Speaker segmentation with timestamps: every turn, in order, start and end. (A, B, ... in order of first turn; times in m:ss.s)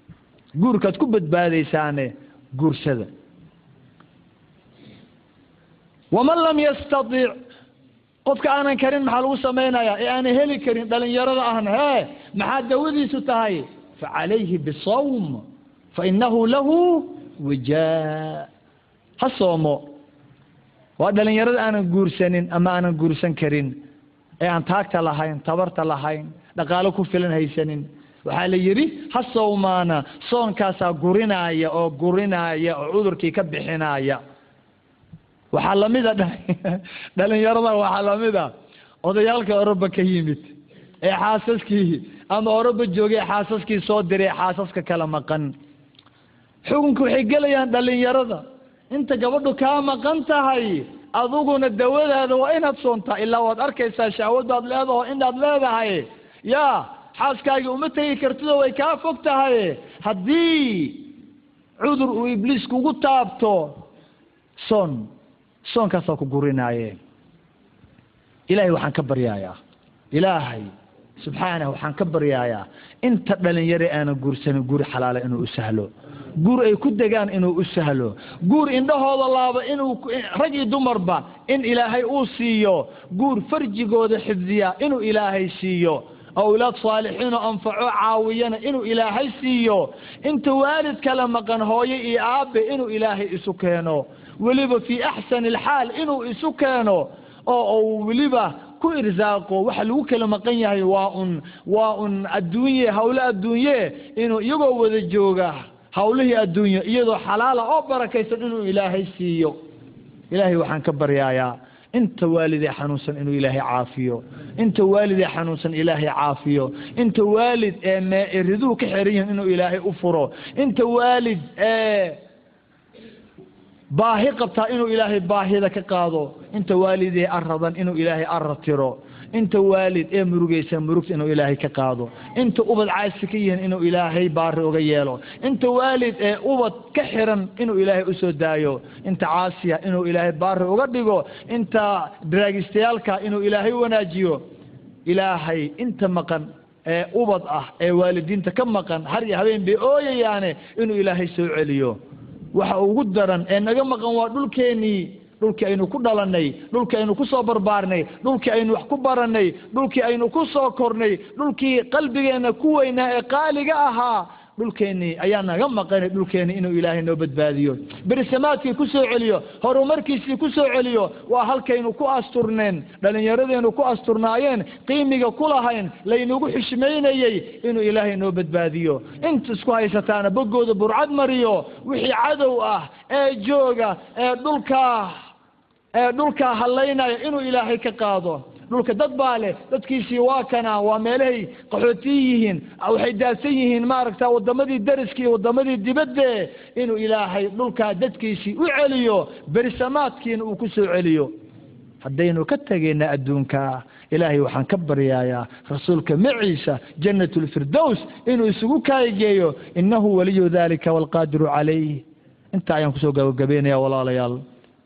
0:00.6-0:03.1 A
0:06.1-0:07.4 A
0:08.2-0:15.4 A
0:15.9-0:18.5 A
0:19.2-0:19.9 A
0:21.0-0:23.8 A
0:24.4-0:34.2 A
0:35.5-0:38.5 A
0:39.0-0:45.5 A
0:46.6-1:01.1 A
1:01.8-1:03.8 A
1:04.6-1:05.1 A
1:05.6-1:07.0 A
1:08.5-1:09.6 A
1:10.1-1:49.6 A
1:50.3-2:02.2 A
2:03.9-2:24.4 A
2:25.1-2:32.0 A
2:32.5-3:05.2 A
3:05.9-3:21.3 A
3:22.0-3:34.4 A